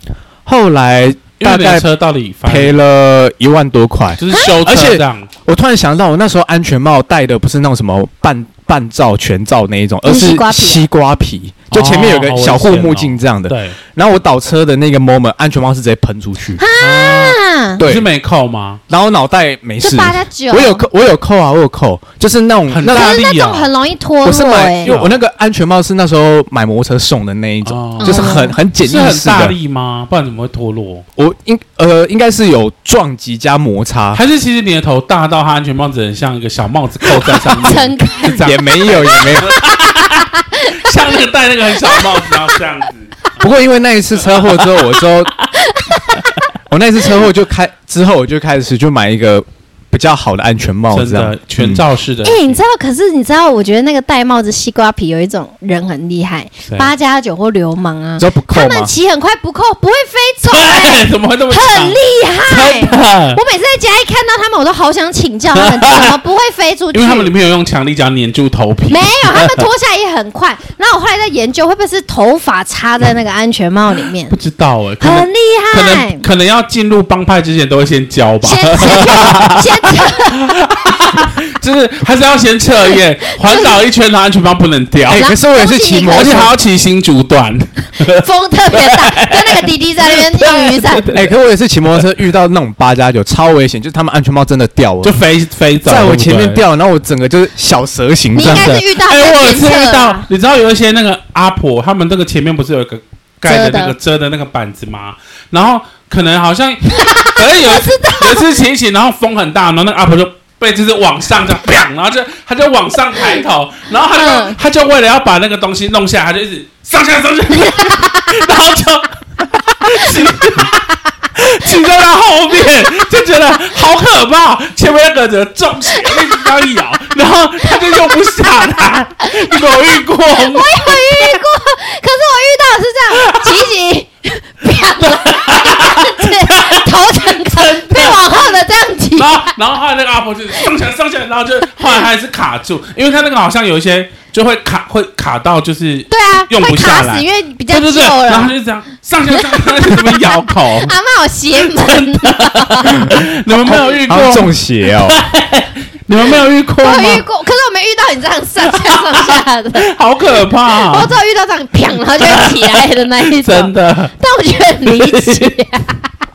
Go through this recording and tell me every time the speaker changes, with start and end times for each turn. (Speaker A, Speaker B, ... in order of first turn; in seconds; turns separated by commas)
Speaker A: 0.5-1.9, Speaker B: 1.4-2.8, Speaker A: 2.5-16.6, Speaker B: 4.2-5.3, Speaker C: 10.0-10.9, Speaker B: 11.7-13.8, Speaker C: 16.6-17.8, Speaker B: 16.8-18.8, Speaker A: 17.8-18.1, Speaker A: 18.9-23.2, Speaker C: 19.8-20.9, Speaker B: 22.7-23.7, Speaker C: 22.9-24.9, Speaker A: 24.2-29.6, Speaker B: 24.8-25.2, Speaker B: 27.6-31.1, Speaker C: 28.0-28.6, Speaker A: 31.2-34.2, Speaker B: 34.1-43.1, Speaker C: 37.1-41.0, Speaker A: 38.4-39.6, Speaker C: 41.8-42.5, Speaker A: 43.4-45.3, Speaker B: 44.4-44.7, Speaker C: 45.6-46.5, Speaker A: 46.7-51.8, Speaker B: 50.9-52.6, Speaker C: 52.2-67.3, Speaker B: 56.7-56.9, Speaker A: 58.2-58.9, Speaker B: 60.5-63.4, Speaker B: 65.6-66.1, Speaker B: 66.9-69.7, Speaker C: 68.9-74.3, Speaker B: 74.3-85.3, Speaker C: 75.0-76.2, Speaker C: 78.4-80.6, Speaker C: 83.2-83.8, Speaker A: 85.1-86.5, Speaker C: 85.2-86.5, Speaker B: 86.1-91.3, Speaker C: 88.0-91.2, Speaker A: 91.1-95.2, Speaker B: 95.0-96.6, Speaker A: 95.8-98.7, Speaker C: 98.3-100.3, Speaker B: 98.4-131.4, Speaker C: 103.5-104.0, Speaker C: 106.9-108.5, Speaker C: 114.1-114.6, Speaker C: 117.8-118.3, Speaker C: 119.9-120.2, Speaker C: 125.9-126.3, Speaker C: 127.7-128.2, Speaker C: 129.4-139.5, Speaker B: 133.2-133.7, Speaker B: 134.7-138.6, Speaker B: 139.2-150.9, Speaker C: 146.1-148.5, Speaker C: 149.3-153.1, Speaker B: 151.6-157.2, Speaker A: 153.0-155.2, Speaker C: 156.8-159.9, Speaker B: 158.7-161.2, Speaker C: 160.7-166.1, Speaker B: 162.2-164.1, Speaker B: 164.8-165.6